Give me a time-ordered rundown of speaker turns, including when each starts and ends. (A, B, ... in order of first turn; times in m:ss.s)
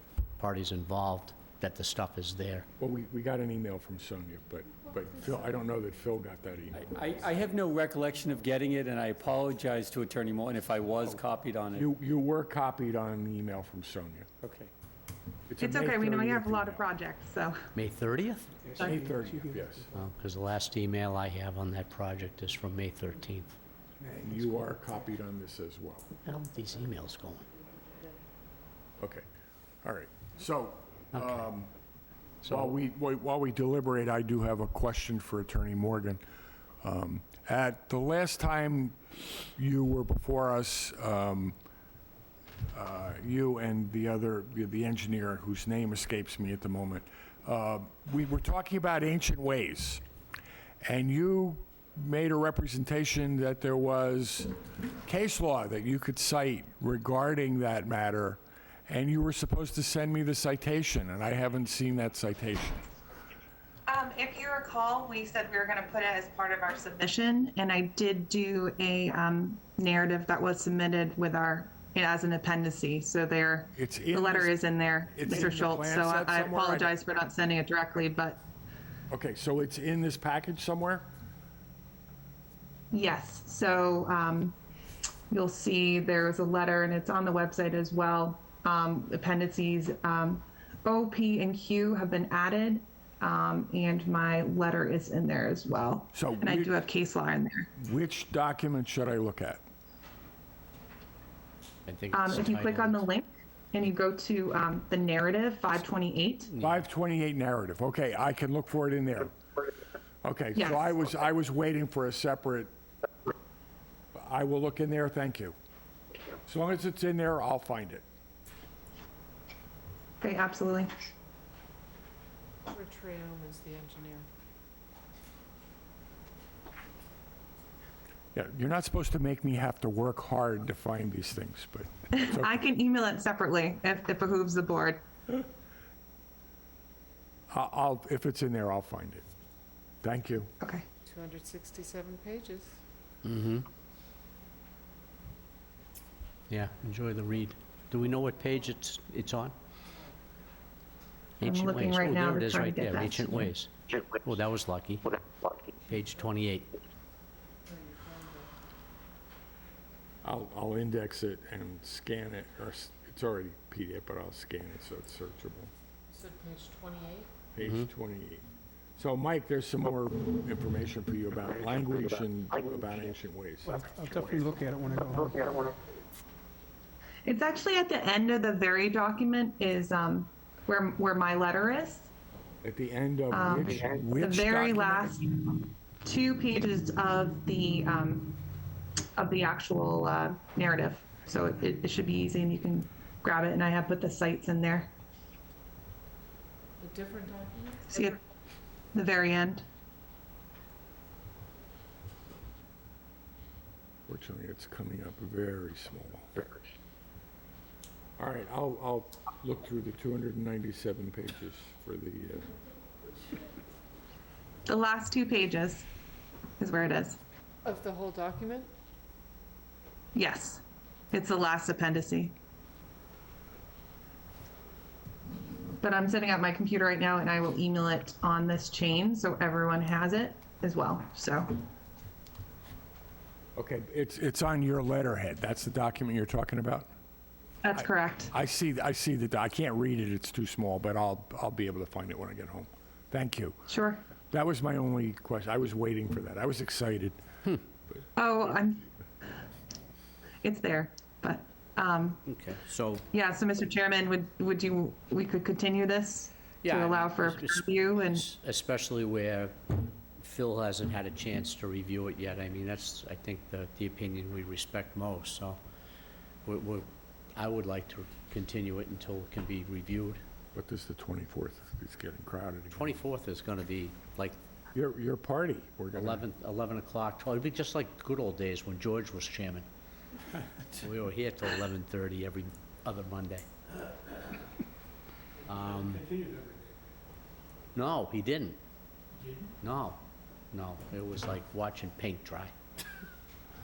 0:00.4-0:02.7 A
0:02.8-0:06.8 B
0:06.7-0:11.9 C
0:11.8-0:14.3 B
0:14.4-0:14.7 C
0:15.5-0:16.8 B
0:15.6-0:17.7 D
0:17.8-0:18.5 A
0:18.6-0:19.9 E
0:18.8-0:19.9 B
0:19.9-0:23.5 A
0:24.1-0:26.1 B
0:26.2-0:27.5 A
0:29.0-0:29.2 B
0:29.8-0:31.7 B
0:32.4-0:36.2 B
0:36.8-0:41.6 B
0:42.7-0:50.0 B
0:50.8-0:54.5 B
0:55.1-1:02.8 B
1:03.9-1:18.4 D
1:13.8-1:14.6 B
1:15.1-1:16.9 B
1:19.1-1:21.1 B
1:22.9-1:24.6 D
1:25.3-1:37.7 D
1:36.1-1:36.7 B
1:37.8-1:39.6 B
1:41.9-1:43.0 A
1:42.1-1:46.5 D
1:46.6-1:49.3 B
1:50.2-1:52.7 B
1:50.6-1:50.9 D
1:54.1-1:55.6 B
1:56.5-1:58.0 B
2:00.2-2:00.9 D
2:02.7-2:04.3 F
2:08.4-2:12.6 B
2:12.1-2:15.0 D
2:17.5-2:19.2 B
2:20.0-2:20.5 B
2:20.6-2:20.9 D
2:21.0-2:22.8 F
2:23.2-2:23.7 A
2:26.5-2:29.6 A
2:31.4-2:35.2 A
2:31.4-2:33.5 D
2:35.9-2:36.7 A
2:37.7-2:38.5 F
2:40.2-2:45.7 B
2:46.1-2:47.3 F
2:47.6-2:48.4 B
2:49.0-2:53.8 B
2:53.8-2:55.7 E
2:57.2-3:02.1 D
3:02.6-3:05.2 B
3:03.3-3:08.4 D
3:09.2-3:14.9 D
3:16.8-3:17.9 F
3:17.9-3:18.2 D
3:18.9-3:19.6 D
3:24.1-3:26.5 B
3:28.2-3:32.5 B
3:34.7-3:35.9 D
3:36.6-3:37.2 D
3:37.6-3:38.7 F
3:40.1-3:42.4 D
3:45.8-3:51.6 D
3:53.6-3:56.9 B
3:57.6-3:58.3 D
3:57.8-4:03.6 B
4:03.7-4:04.0 D
4:04.3-4:07.2 B
4:08.2-4:08.8 D
4:10.4-4:12.2 D
4:12.3-4:13.1 A
4:13.1-4:18.3 D
4:16.6-4:25.6 A
4:26.4-4:30.2 A
4:30.6-4:33.0 B
4:32.7-4:34.4 A
4:34.8-4:36.3 B
4:35.9-4:39.7 A
4:40.7-4:43.5 A
4:45.5-4:46.1 A
4:47.8-4:48.6 A
4:49.6-4:52.5 A